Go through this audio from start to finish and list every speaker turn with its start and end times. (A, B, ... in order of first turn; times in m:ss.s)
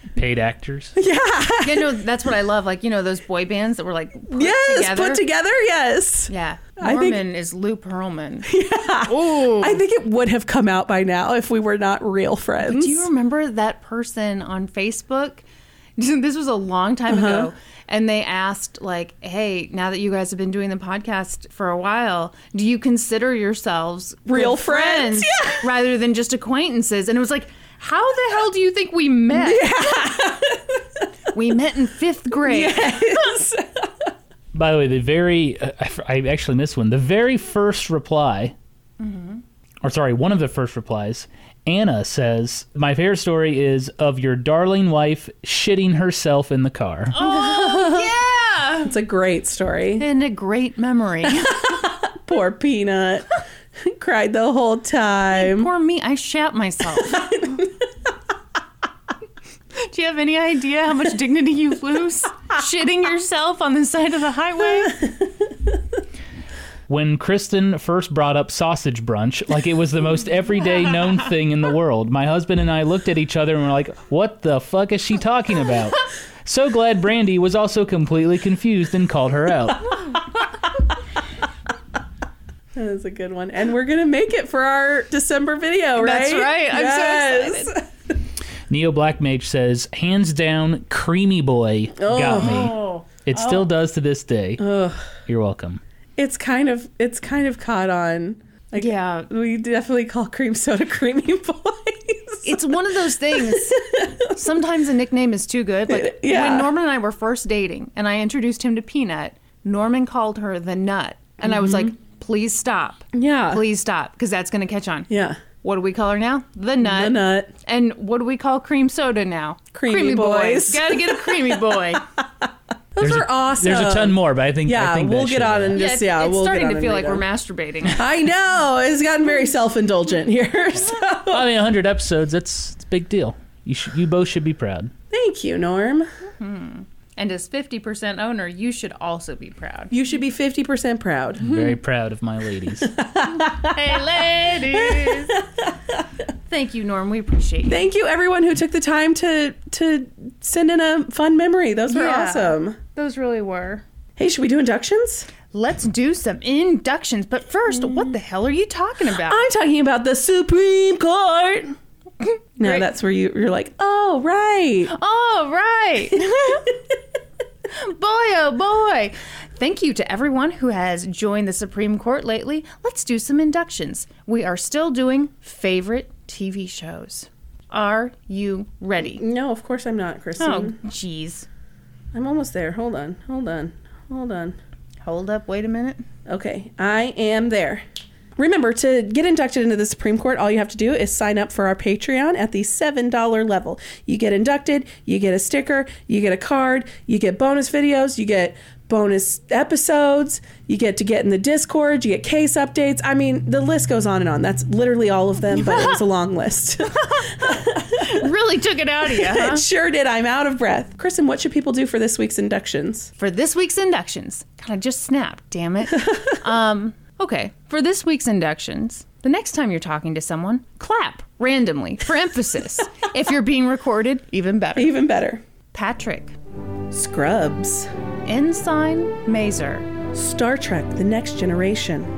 0:00.2-0:01.0 A
0:01.0-0:02.0 B
0:01.6-0:05.2 C
0:04.3-0:07.2 B
0:06.3-0:08.5 C
0:08.5-0:13.1 B
0:09.0-0:09.8 C
0:12.6-0:15.4 C
0:16.0-0:29.8 C
0:17.1-0:17.5 B
0:24.3-0:25.7 B
0:29.3-0:31.0 B
0:31.3-0:33.3 C
0:32.4-0:34.1 B
0:34.5-0:38.5 A
0:39.0-0:39.4 C
0:39.8-0:47.2 A
0:47.1-0:48.9 C
0:47.2-0:48.1 B
0:48.8-0:50.0 B
0:50.0-0:51.9 C
0:51.6-0:55.7 B
0:55.3-0:57.4 C
0:57.0-0:57.8 B
0:59.7-1:05.0 C
1:06.9-1:20.0 A
1:22.7-1:27.8 B
1:26.0-1:27.7 C
1:28.7-1:34.6 A
1:32.0-1:32.7 B
1:32.3-1:33.6 C
1:34.6-1:35.1 B
1:35.3-1:35.8 A
1:36.2-1:44.5 B
1:38.8-1:39.3 C
1:42.4-1:55.1 C
1:45.9-1:46.7 B
1:51.4-1:51.9 B
1:53.1-1:53.6 B
1:55.1-1:55.4 B
1:55.6-2:02.0 C
1:56.8-1:57.5 B
1:59.7-2:07.2 B
2:03.0-2:05.8 A
2:05.7-2:08.0 C
2:07.9-2:11.4 B
2:11.3-2:14.9 A
2:15.1-2:16.1 B
2:16.4-2:19.9 C
2:19.9-2:21.8 B
2:21.4-2:23.0 A
2:22.8-2:26.0 B
2:23.4-2:25.4 C
2:26.4-2:27.8 C
2:27.7-2:32.8 B
2:31.9-2:33.8 C
2:34.2-2:35.3 B
2:35.5-2:39.4 C
2:37.8-2:38.1 B
2:39.1-2:41.7 B
2:42.2-2:42.8 C
2:42.6-2:44.9 B
2:44.9-2:46.7 C
2:46.5-2:46.9 B
2:47.7-2:59.2 C
2:59.0-3:00.8 B
3:00.4-3:01.5 C
3:02.1-3:04.6 B
3:05.0-3:06.0 C
3:06.3-3:07.8 B
3:08.4-3:28.3 B
3:25.5-3:26.0 C
3:26.9-3:29.6 C
3:29.0-3:33.1 B
3:33.2-3:45.0 C
3:44.8-3:45.4 B
3:45.7-3:46.3 C
3:46.9-3:47.9 B
3:48.2-3:49.9 C
3:50.1-3:52.1 B